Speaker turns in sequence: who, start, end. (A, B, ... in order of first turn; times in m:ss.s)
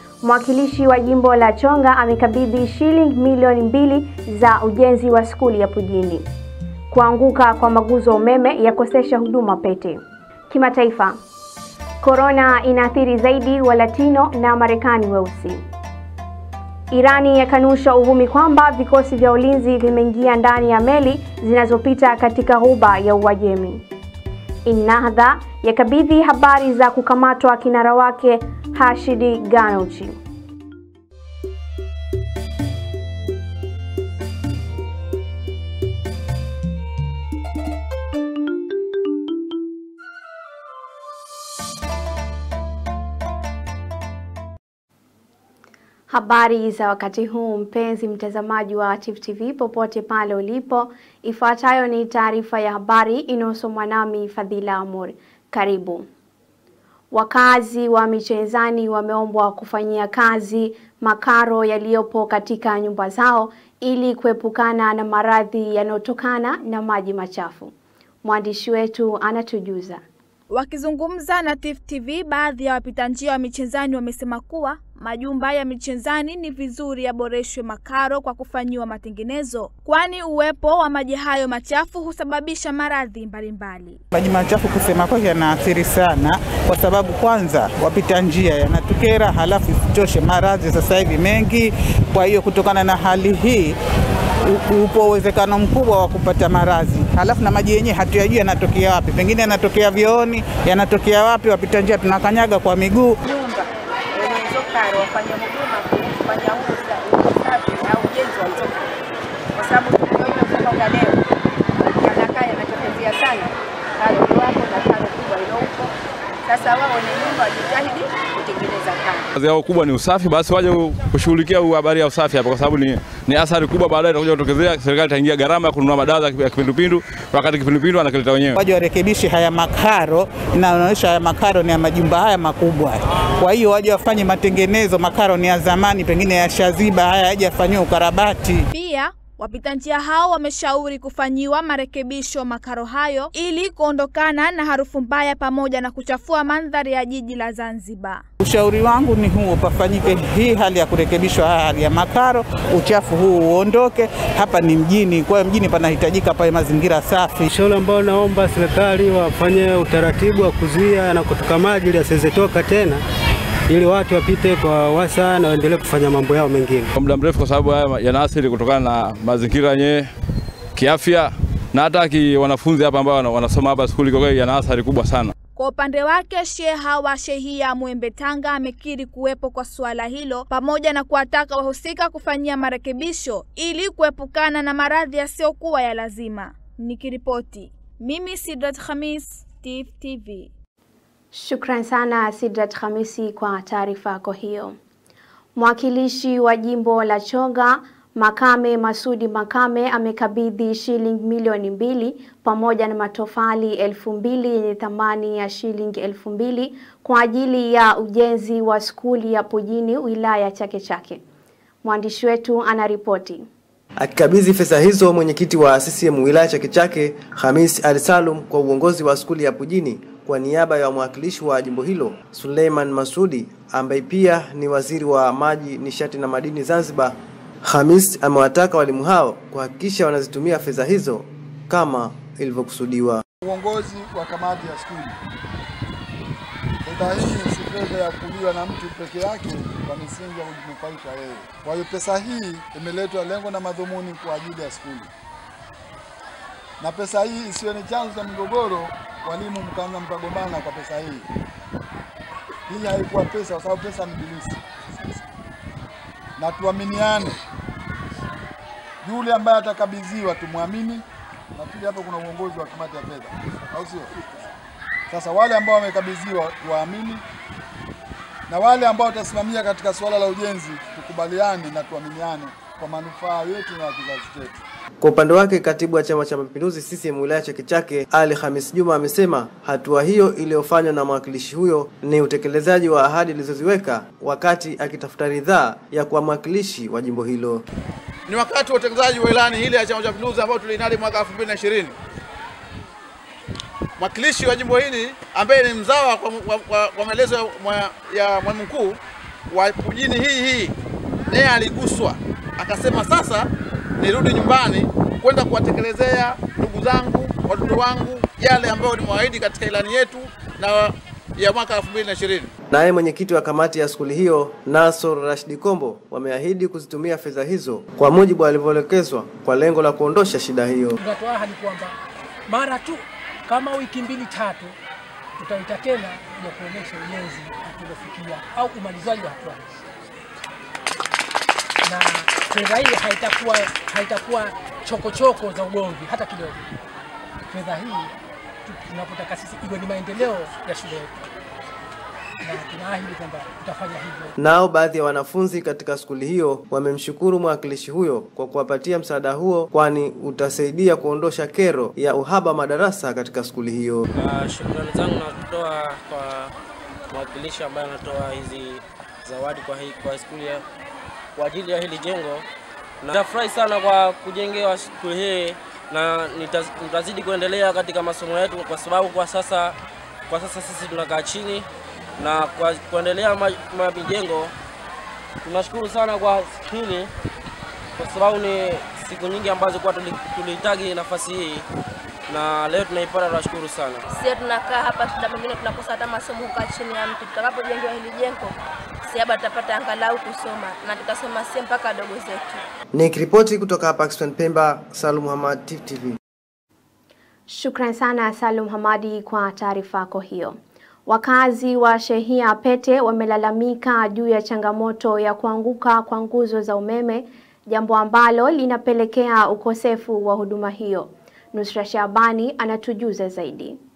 0:00.2-0:06.3 A
0:06.9-0:11.2 A
0:12.0-0:15.6 A
0:16.9-0:23.8 A
0:24.6-0:30.2 A
0:46.1-0:56.1 A
0:57.1-1:07.7 A
1:08.2-1:10.0 A
1:10.5-1:24.0 B
1:24.1-1:33.7 C
1:34.6-1:43.1 C
1:43.2-1:43.6 D
1:44.1-1:48.9 D
1:49.6-1:51.2 D
1:51.8-1:55.8 D
1:56.5-1:59.2 D
1:59.4-2:08.6 E
2:08.6-2:18.7 C
2:18.7-2:28.2 B
2:28.4-2:37.5 C
2:37.5-2:43.0 F
2:43.7-2:46.9 F
2:46.9-2:50.1 E
2:50.8-2:55.3 E
2:55.6-3:10.5 B
3:11.3-3:14.7 A
3:15.6-3:31.2 A
3:31.8-3:33.4 A
3:34.0-3:53.2 G
3:53.4-3:55.2 H
3:56.8-4:05.1 H
4:06.8-4:11.3 H
4:12.7-4:14.6 H
4:16.4-4:17.4 H
4:19.0-4:24.1 H
4:25.1-4:27.2 H
4:28.5-4:34.6 H
4:35.0-4:47.6 G
4:48.3-4:51.9 I
4:54.0-5:00.7 I
5:01.3-5:12.5 I
5:12.7-5:20.9 G
5:21.0-5:22.0 J
5:22.5-5:24.8 J
5:25.4-5:29.6 J
5:31.8-5:36.6 J
5:37.5-5:38.1 J
5:38.6-5:41.2 J
5:42.4-5:44.3 J
5:44.4-5:54.0 G
5:54.2-5:54.6 I
5:54.8-5:55.1 K
5:55.3-5:56.2 I
5:59.7-6:00.5 K
6:01.6-6:02.4 K
6:03.8-6:05.5 K
6:06.4-6:09.5 K
6:10.6-6:11.6 K
6:12.3-6:14.5 K
6:15.8-6:17.0 K
6:18.0-6:18.7 K
6:19.4-6:21.6 K
6:22.4-6:24.0 K
6:24.1-6:28.5 L
6:29.1-6:32.6 L
6:32.9-6:36.2 G
6:37.5-6:53.8 A